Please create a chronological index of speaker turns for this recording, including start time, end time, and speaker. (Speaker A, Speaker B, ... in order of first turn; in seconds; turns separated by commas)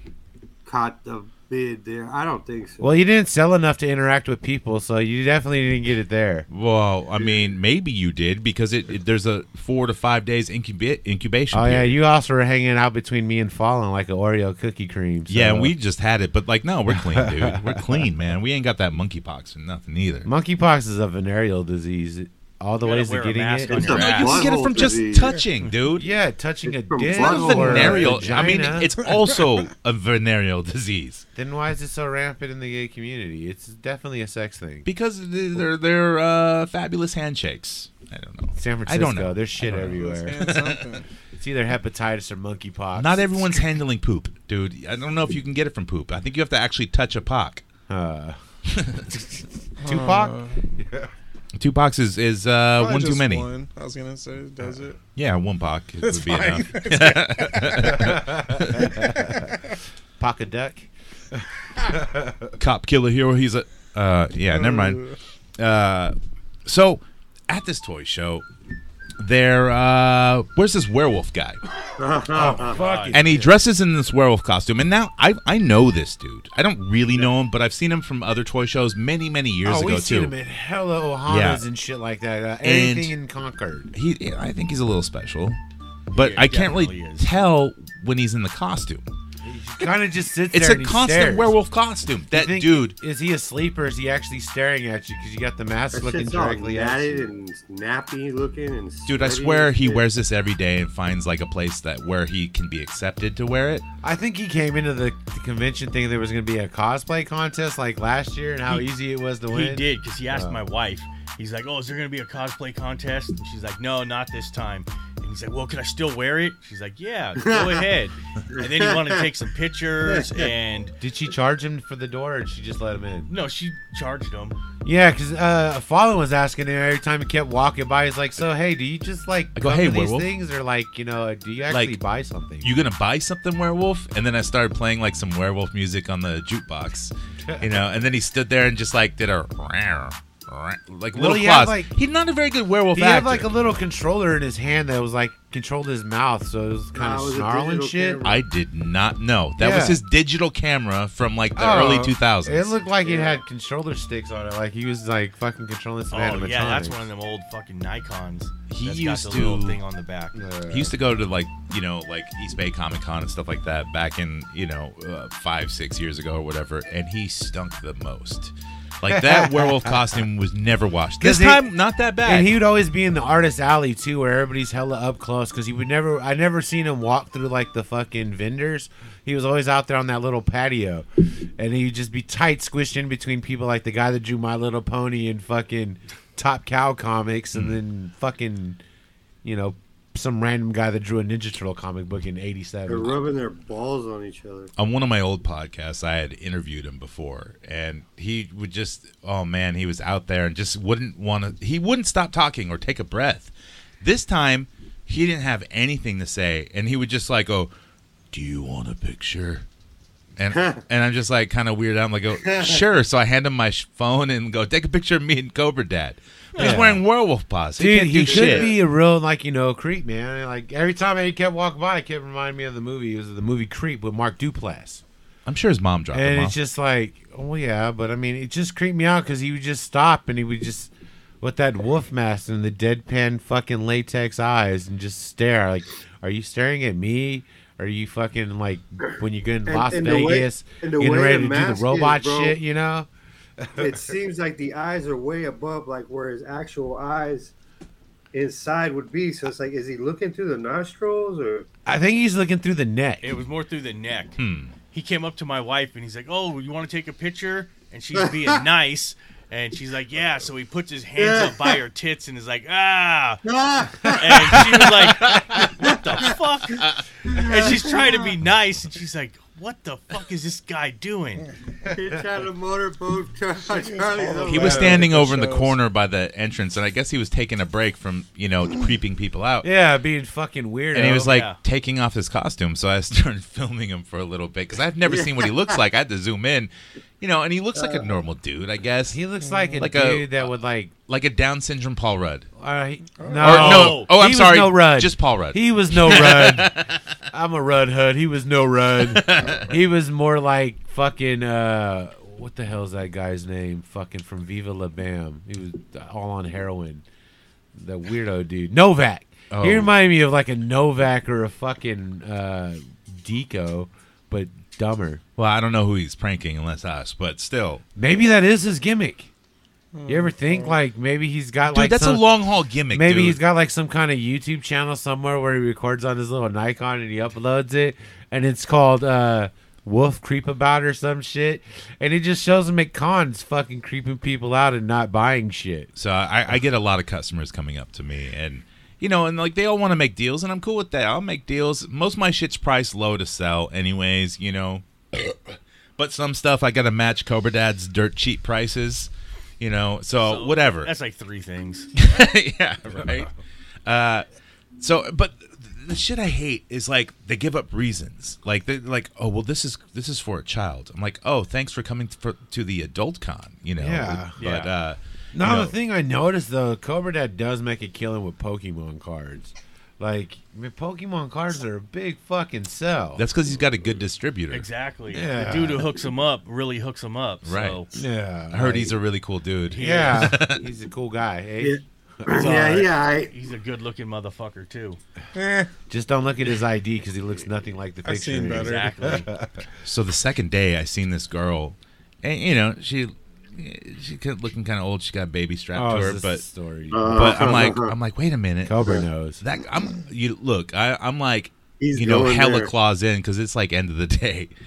Speaker A: 0.6-2.9, Speaker B: 2.8-6.5, Speaker C: 6.5-11.9, Speaker B: 11.5-15.7, Speaker C: 15.3-20.3, Speaker B: 16.9-18.0, Speaker B: 20.2-23.9, Speaker D: 22.8-24.5, Speaker A: 23.7-25.4, Speaker C: 23.9-26.1, Speaker B: 25.9-28.9, Speaker A: 26.6-28.3, Speaker C: 27.1-31.2, Speaker B: 31.3-34.9, Speaker C: 34.8-40.8, Speaker B: 38.5-40.5, Speaker E: 39.7-41.0, Speaker B: 41.3-43.7, Speaker C: 43.0-47.6, Speaker B: 47.9-48.4, Speaker C: 48.7-49.1, Speaker E: 49.8-50.6, Speaker B: 49.8-51.1, Speaker C: 51.5-53.5, Speaker E: 52.8-55.0, Speaker C: 55.1-59.0, Speaker E: 56.0-58.0, Speaker E: 59.0-59.4, Speaker B: 60.2-62.5, Speaker C: 62.6-65.0, Speaker E: 64.5-65.2, Speaker C: 65.6-66.1, Speaker C: 66.7-68.5, Speaker C: 69.2-71.6, Speaker A: 72.0-72.8, Speaker B: 72.3-73.5, Speaker D: 72.7-73.1, Speaker C: 73.1-80.3, Speaker B: 79.6-83.9, Speaker C: 81.3-81.6, Speaker C: 82.6-83.1, Speaker C: 83.9-85.6, Speaker D: 86.1-87.4, Speaker C: 86.1-89.0, Speaker B: 89.4-91.5, Speaker C: 90.5-93.0, Speaker B: 92.3-97.3, Speaker A: 95.9-100.0, Speaker C: 99.0-103.8, Speaker B: 104.0-110.6, Speaker D: 109.5-120.9, Speaker A: 117.4-117.8, Speaker A: 118.5-119.2, Speaker A: 120.1-120.5, Speaker B: 121.0-123.3, Speaker D: 123.3-124.5, Speaker B: 124.8-132.7, Speaker C: 129.5-130.3, Speaker C: 131.7-132.0, Speaker C: 132.6-143.5, Speaker B: 137.4-137.7, Speaker B: 141.1-141.9, Speaker B: 142.9-148.2, Speaker A: 146.9-148.4, Speaker C: 148.2-152.8, Speaker B: 149.6-150.0, Speaker B: 151.6-157.1, Speaker A: 153.0-153.4, Speaker D: 156.1-160.4, Speaker C: 158.7-159.8, Speaker B: 160.3-161.0, Speaker C: 160.7-172.6, Speaker B: 169.1-170.0, Speaker B: 171.2-171.7, Speaker B: 172.2-188.8, Speaker B: 189.4-193.3, Speaker A: 192.9-194.7, Speaker C: 194.8-207.7, Speaker C: 208.3-209.6, Speaker C: 210.4-218.7, Speaker A: 210.5-210.8, Speaker A: 212.5-212.8, Speaker D: 216.5-216.8, Speaker B: 216.6-217.0, Speaker B: 217.8-225.0, Speaker A: 218.2-218.8, Speaker C: 225.4-226.6, Speaker B: 226.1-243.1, Speaker A: 239.7-242.6, Speaker B: 243.6-244.1, Speaker A: 243.8-247.5, Speaker A: 248.3-251.7, Speaker B: 251.8-253.3, Speaker D: 253.2-254.4, Speaker C: 254.4-254.7, Speaker D: 254.9-263.4, Speaker A: 258.2-258.6, Speaker A: 261.1-261.8, Speaker A: 263.4-264.9, Speaker D: 264.1-271.5, Speaker B: 264.4-264.7, Speaker C: 265.3-265.6, Speaker A: 265.8-266.1, Speaker A: 267.3-268.3, Speaker B: 271.8-272.1, Speaker A: 271.9-275.0, Speaker E: 273.8-275.8, Speaker C: 274.5-279.7, Speaker B: 274.6-275.0, Speaker B: 279.6-281.3, Speaker C: 280.9-289.2, Speaker D: 281.2-281.6, Speaker A: 285.0-285.8, Speaker A: 287.8-288.1, Speaker B: 289.1-290.9, Speaker E: 289.4-289.8, Speaker C: 289.8-290.3, Speaker C: 291.1-292.5, Speaker B: 292.6-296.7, Speaker E: 293.2-293.5, Speaker D: 293.4-294.1, Speaker C: 293.4-297.0, Speaker B: 297.3-307.0, Speaker C: 299.1-299.6, Speaker B: 307.8-315.2, Speaker C: 309.5-309.9, Speaker C: 315.4-317.8, Speaker B: 317.9-319.3, Speaker E: 319.9-320.8, Speaker B: 320.1-322.3, Speaker C: 321.7-323.4, Speaker B: 322.9-335.9, Speaker C: 335.9-345.3, Speaker C: 346.0-350.9, Speaker D: 350.2-351.9, Speaker C: 351.9-353.3, Speaker C: 353.9-354.2, Speaker C: 354.8-365.7, Speaker B: 363.8-364.4, Speaker D: 364.4-364.7, Speaker B: 365.3-373.2, Speaker C: 373.2-374.6, Speaker D: 374.5-377.9, Speaker B: 375.1-375.9, Speaker C: 377.4-377.8, Speaker B: 377.9-378.9, Speaker C: 378.5-380.6, Speaker D: 379.7-380.3, Speaker B: 379.8-382.7, Speaker A: 381.6-383.3, Speaker D: 382.3-385.0, Speaker E: 385.3-385.7, Speaker B: 385.9-389.6, Speaker E: 388.0-389.1, Speaker D: 388.5-389.3, Speaker C: 389.8-396.4, Speaker B: 395.7-397.5, Speaker A: 396.9-397.9, Speaker C: 397.1-398.9, Speaker B: 398.6-399.4, Speaker C: 399.4-404.5, Speaker A: 401.8-402.7